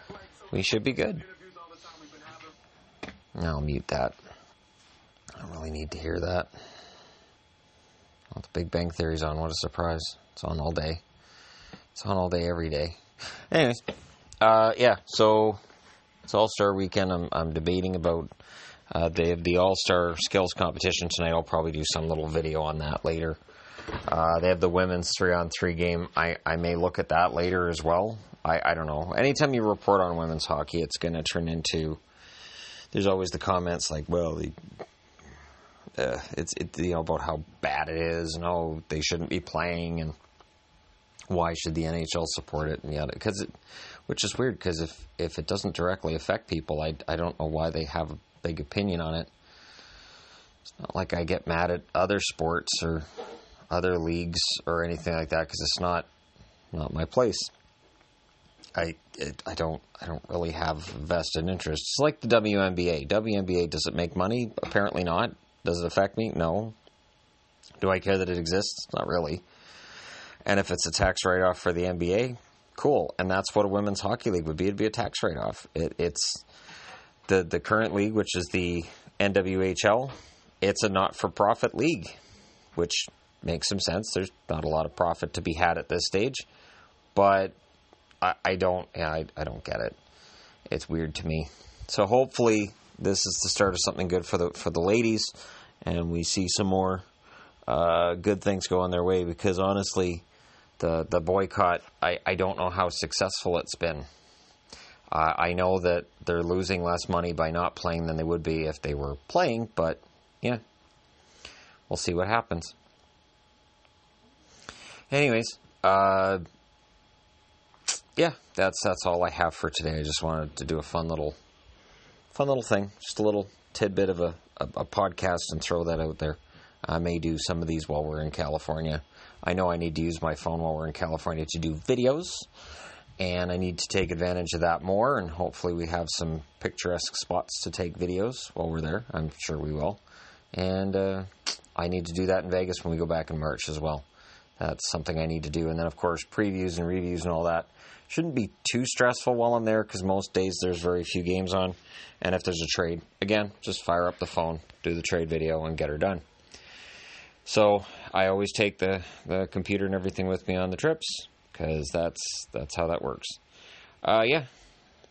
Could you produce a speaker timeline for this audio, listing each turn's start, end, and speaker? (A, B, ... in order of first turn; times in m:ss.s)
0:00.5-0:01.3 A
0:03.4-0:04.2 A
0:05.4-0:06.5 A
0:08.3-0:11.0 A
0:12.0-0:13.0 A
0:13.5-0:13.8 A
0:14.4-0:15.6 A
0:16.2-0:18.3 A
0:18.9-0:23.4 A
0:24.1-0:32.0 A
0:32.9-0:34.6 A
0:36.0-0:40.2 A
0:41.3-0:43.5 A
0:44.1-0:49.3 A
0:50.8-0:53.1 A
0:53.7-0:56.1 A
0:56.7-0:57.5 A
0:58.8-1:06.8 A
1:07.8-1:09.4 A
1:10.4-1:16.4 A
1:17.3-1:22.2 A
1:22.8-1:26.5 A
1:27.2-1:27.6 A
1:28.2-1:30.0 A
1:30.7-1:37.0 A
1:37.7-1:40.2 A
1:40.8-1:44.1 A
1:45.1-1:50.6 A
1:51.9-1:52.8 A
1:55.1-1:56.4 A
1:58.2-2:01.4 A
2:02.3-2:12.5 A
2:13.2-2:20.0 A
2:20.5-2:24.1 A
2:24.6-2:36.2 A
2:37.4-2:43.4 A
2:44.0-2:44.5 A